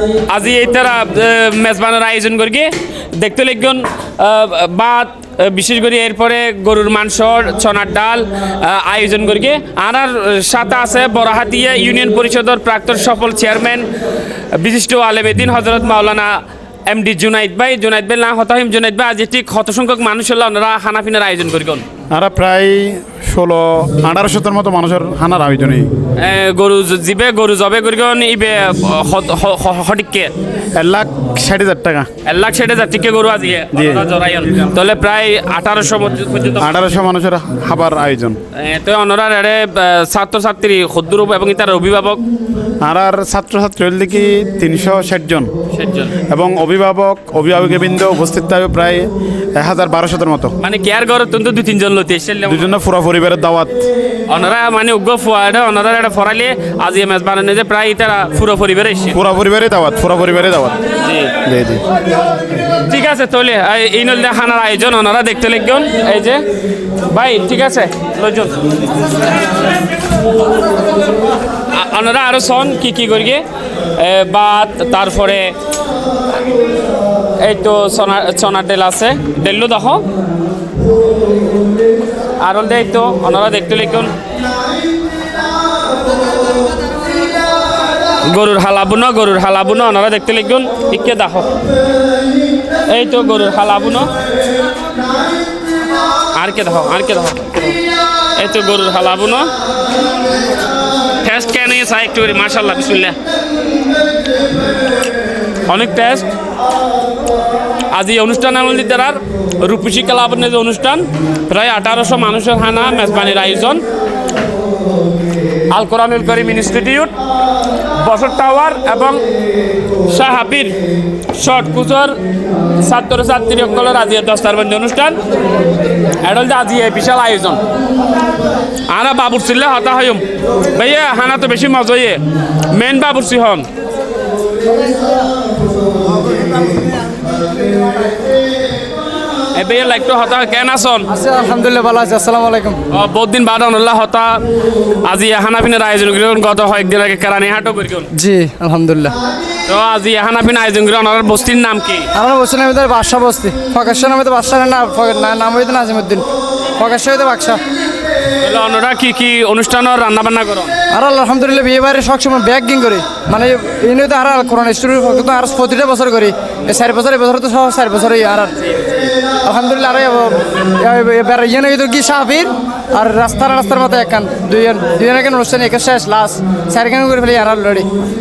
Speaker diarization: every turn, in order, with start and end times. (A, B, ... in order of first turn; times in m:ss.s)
0:00.3-0:13.9 A
0:14.5-0:21.8 A
0:22.1-0:25.9 B
0:26.2-0:30.3 A
0:30.8-0:32.1 B
0:32.2-0:36.8 A
0:33.7-0:34.0 B
0:36.6-0:38.4 B
0:38.6-0:42.2 A
0:42.8-0:45.5 B
0:45.7-0:46.2 A
0:46.3-0:50.6 B
0:50.6-0:52.8 A
0:52.5-0:53.8 B
0:54.3-0:59.2 A
0:59.1-1:00.8 B
1:01.0-1:01.4 A
1:01.4-1:01.8 B
1:02.9-1:06.4 A
1:07.1-1:08.7 A
1:11.7-1:13.4 A
1:14.0-1:15.5 A
1:17.4-1:20.0 A
1:22.4-1:24.1 A
1:28.2-1:31.5 A
1:32.9-1:34.1 A
1:36.4-1:37.8 A
1:38.4-1:39.5 A
1:41.2-1:43.2 A
1:45.7-1:46.3 A
1:47.9-1:53.8 A
1:55.7-1:57.1 A
1:58.0-1:59.2 A
2:00.1-2:00.8 A
2:01.3-2:02.2 A
2:02.8-2:05.2 A
2:06.2-2:07.6 A
2:08.9-2:13.7 A
2:19.5-2:21.1 A
2:21.1-2:22.8 C
2:22.9-2:24.4 A
2:25.0-2:28.1 A
2:28.2-2:29.1 C
2:29.7-2:32.1 A
2:32.2-2:36.2 C
2:36.8-2:37.6 C
2:38.4-2:40.7 A
2:40.9-2:48.6 C
2:49.5-2:52.5 C
2:53.0-2:57.8 C